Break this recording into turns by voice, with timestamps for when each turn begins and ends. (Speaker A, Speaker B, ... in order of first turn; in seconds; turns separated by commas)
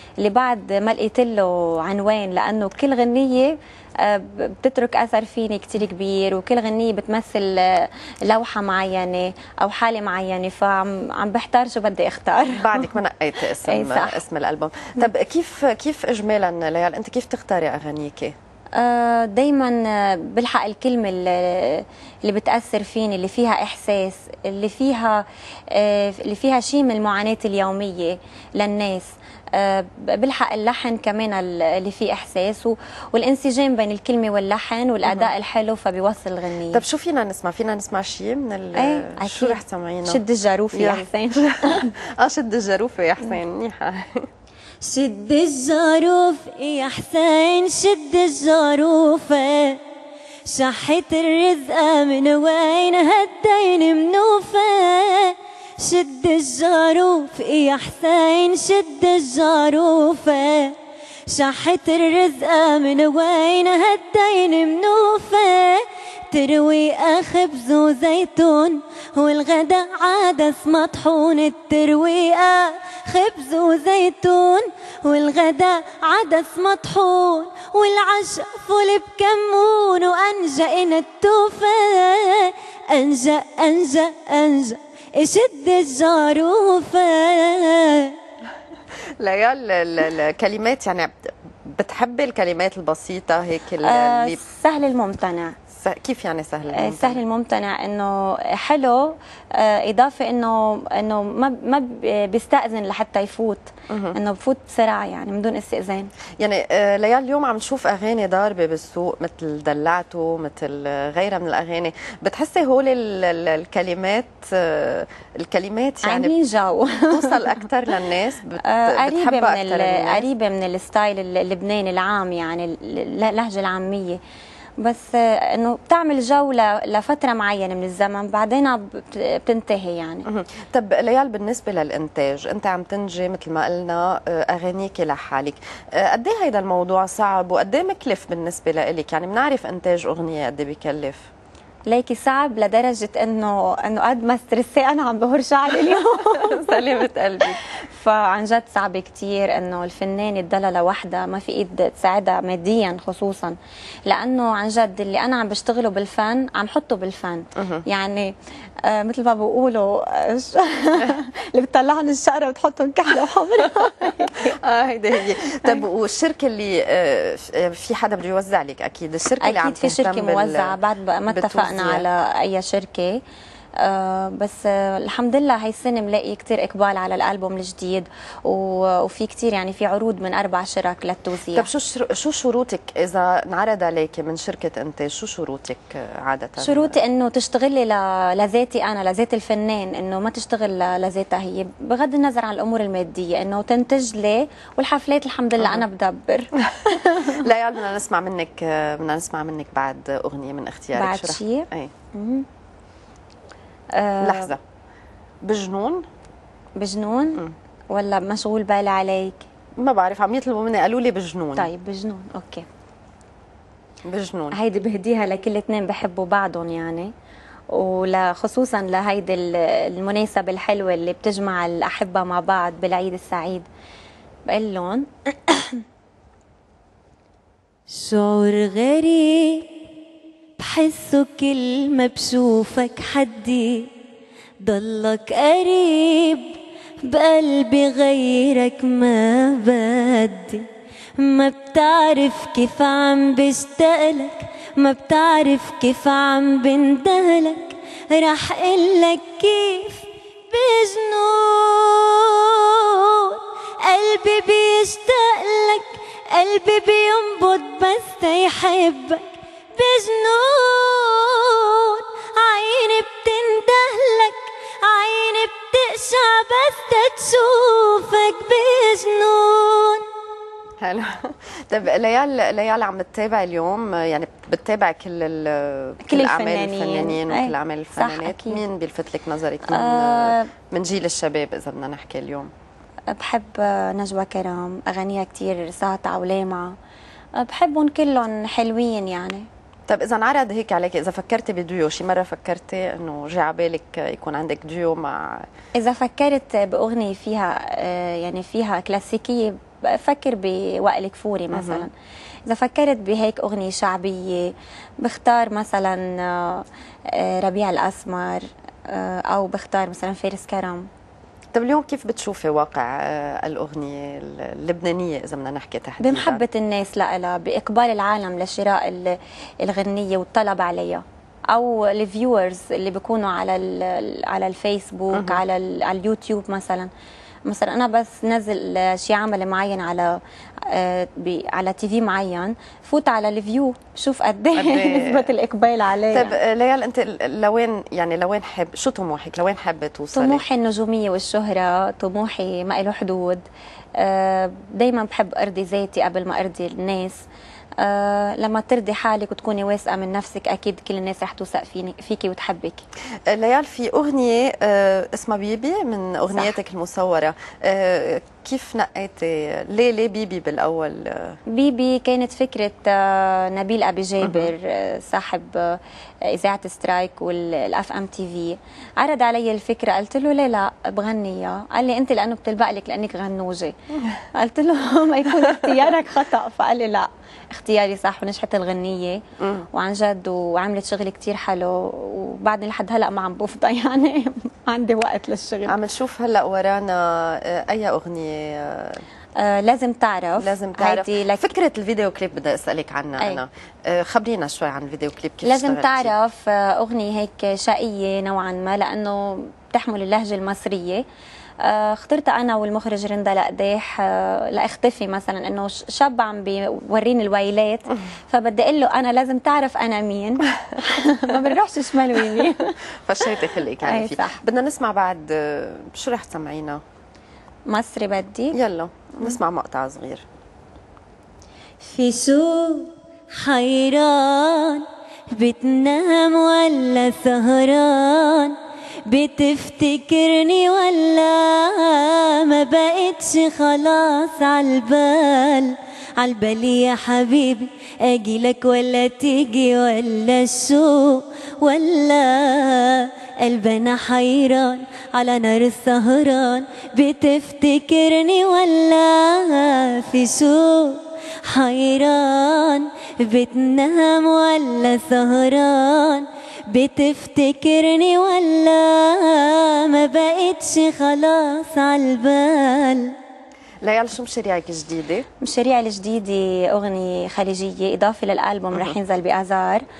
Speaker A: 0.2-12.9, Speaker B: 12.5-18.3, Speaker A: 13.6-14.2, Speaker A: 18.8-36.8, Speaker B: 35.0-35.3, Speaker B: 36.7-40.2, Speaker A: 38.8-41.9, Speaker B: 40.7-44.2, Speaker C: 44.8-49.8, Speaker C: 50.5-60.7, Speaker C: 61.3-88.2, Speaker B: 89.2-94.4, Speaker A: 93.8-95.6, Speaker B: 95.7-97.2, Speaker A: 96.7-106.1, Speaker B: 103.9-104.2, Speaker B: 106.4-116.3, Speaker A: 116.0-117.6, Speaker B: 117.1-120.2, Speaker A: 118.6-124.2, Speaker A: 124.8-130.2, Speaker B: 130.3-141.3, Speaker A: 141.9-146.8, Speaker B: 146.2-147.6, Speaker A: 147.6-153.6, Speaker A: 154.1-158.3, Speaker B: 157.6-157.8, Speaker A: 158.8-164.6, Speaker B: 164.6-170.8, Speaker A: 169.4-173.2, Speaker B: 171.3-172.1, Speaker A: 173.8-181.7, Speaker B: 181.5-187.0, Speaker A: 186.6-197.4, Speaker B: 197.2-201.9, Speaker A: 200.9-202.4, Speaker A: 203.9-204.5, Speaker B: 204.2-204.6, Speaker B: 205.4-206.0, Speaker A: 206.8-209.4, Speaker B: 209.8-211.7, Speaker A: 211.6-212.7, Speaker B: 214.1-214.6, Speaker A: 214.5-217.1, Speaker A: 217.7-223.7, Speaker A: 224.5-225.8, Speaker C: 227.9-229.7, Speaker C: 230.6-233.9, Speaker C: 234.6-240.7, Speaker C: 241.2-270.0, Speaker B: 270.8-282.5, Speaker A: 276.0-278.6, Speaker A: 279.7-280.5, Speaker A: 283.1-286.7, Speaker A: 287.4-289.4, Speaker B: 289.9-295.4, Speaker A: 295.8-301.9, Speaker B: 301.5-301.9, Speaker A: 302.4-310.9, Speaker B: 311.5-316.4, Speaker A: 316.0-326.9, Speaker B: 325.1-325.4, Speaker A: 327.4-336.4, Speaker B: 334.5-335.3, Speaker B: 336.1-340.4, Speaker A: 340.1-343.4, Speaker A: 344.0-347.1, Speaker A: 347.8-352.8, Speaker B: 353.3-361.4, Speaker A: 356.3-356.6, Speaker A: 361.5-373.7, Speaker B: 364.2-364.5, Speaker A: 374.3-385.8, Speaker B: 379.4-379.6, Speaker B: 385.6-389.0, Speaker A: 389.4-391.4, Speaker B: 390.4-396.1, Speaker A: 395.4-401.0, Speaker A: 401.6-412.7, Speaker B: 413.0-416.8, Speaker A: 413.8-414.4, Speaker A: 417.7-418.6, Speaker B: 418.5-420.2, Speaker C: 421.8-463.1, Speaker B: 463.8-465.2, Speaker A: 465.4-469.8